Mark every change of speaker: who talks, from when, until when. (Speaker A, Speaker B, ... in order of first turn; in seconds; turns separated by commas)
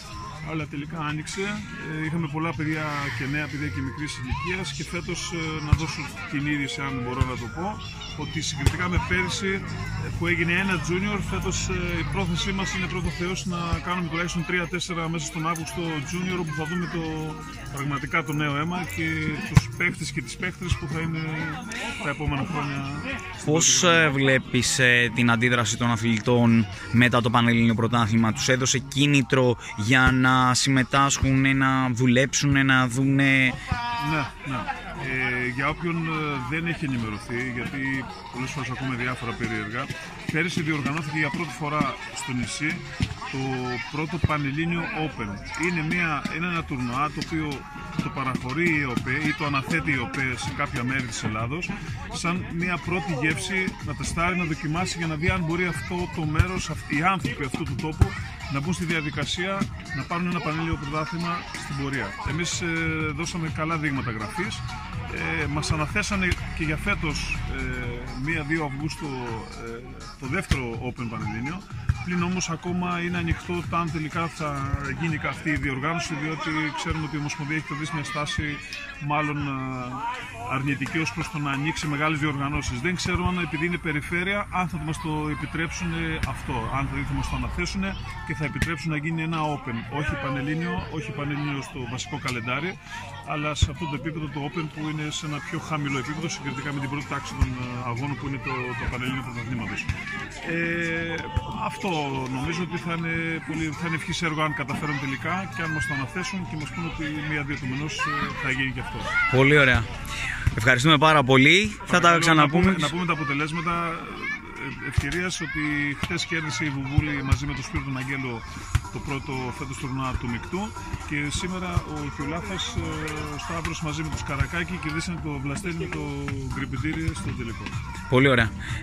Speaker A: 0.4-24.2, Speaker B: 23.4-33.6, Speaker A: 34.0-109.1, Speaker B: 109.3-109.9, Speaker B: 110.5-112.9, Speaker A: 111.9-127.8, Speaker B: 128.1-128.5